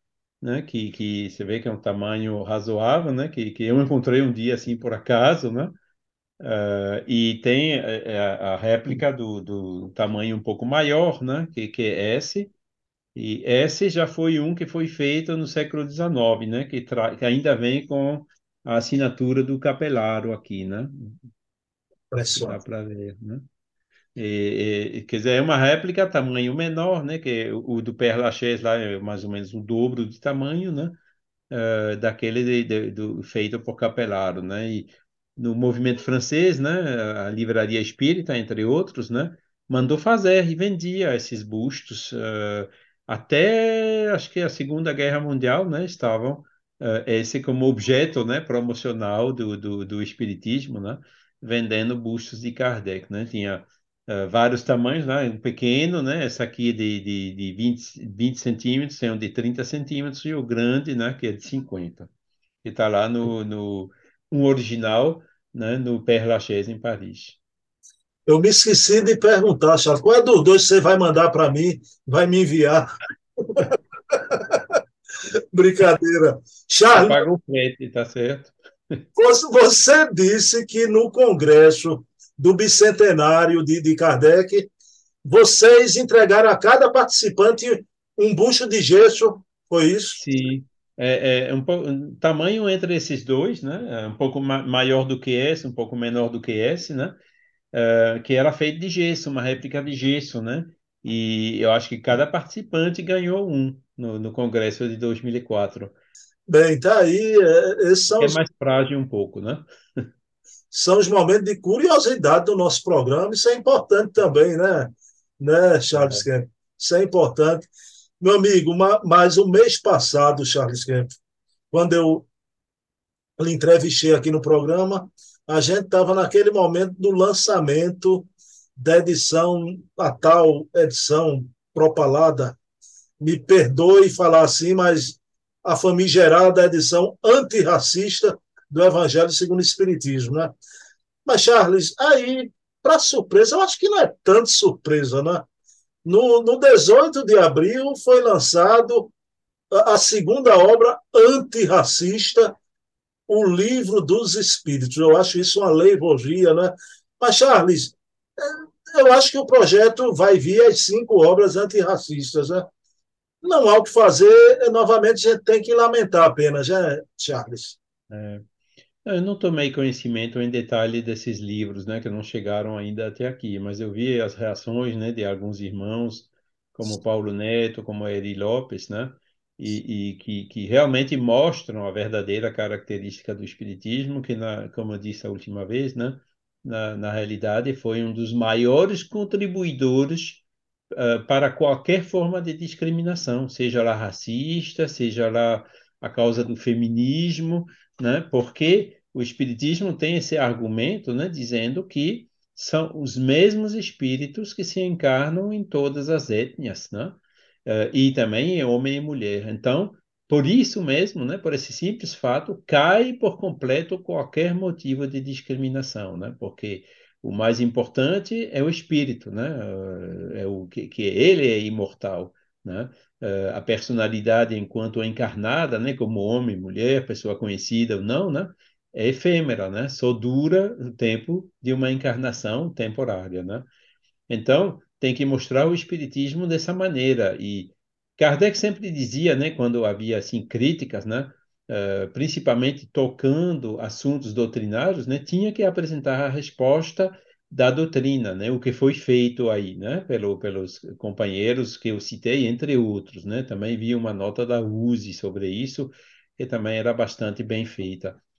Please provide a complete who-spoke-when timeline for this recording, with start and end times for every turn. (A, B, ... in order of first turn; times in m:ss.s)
0:00.4-0:05.8 A
0:06.4-0:12.5 A
0:13.2-0:21.2 A
0:22.1-0:22.6 B
0:22.4-0:23.4 A
0:24.2-0:31.0 A
0:31.5-1:02.1 A
1:02.6-1:07.4 A
1:08.3-1:14.8 B
1:15.5-1:17.2 B
1:16.9-1:19.0 A
1:19.2-1:24.7 B
1:25.2-1:30.2 B
1:30.2-1:37.2 A
1:37.7-1:46.0 A
1:46.5-1:48.4 B
1:48.2-1:50.1 A
1:50.7-1:57.7 B
1:55.9-1:56.2 A
1:58.2-2:01.2 B
2:01.7-2:02.3 B
2:03.4-2:12.6 B
2:13.2-2:20.6 B
2:21.2-2:25.4 B
2:26.0-2:29.1 B
2:29.7-2:32.6 B
2:33.3-2:42.7 B
2:43.4-2:47.8 B
2:48.1-2:48.4 A
2:49.0-3:53.7 A
3:54.3-4:18.2 A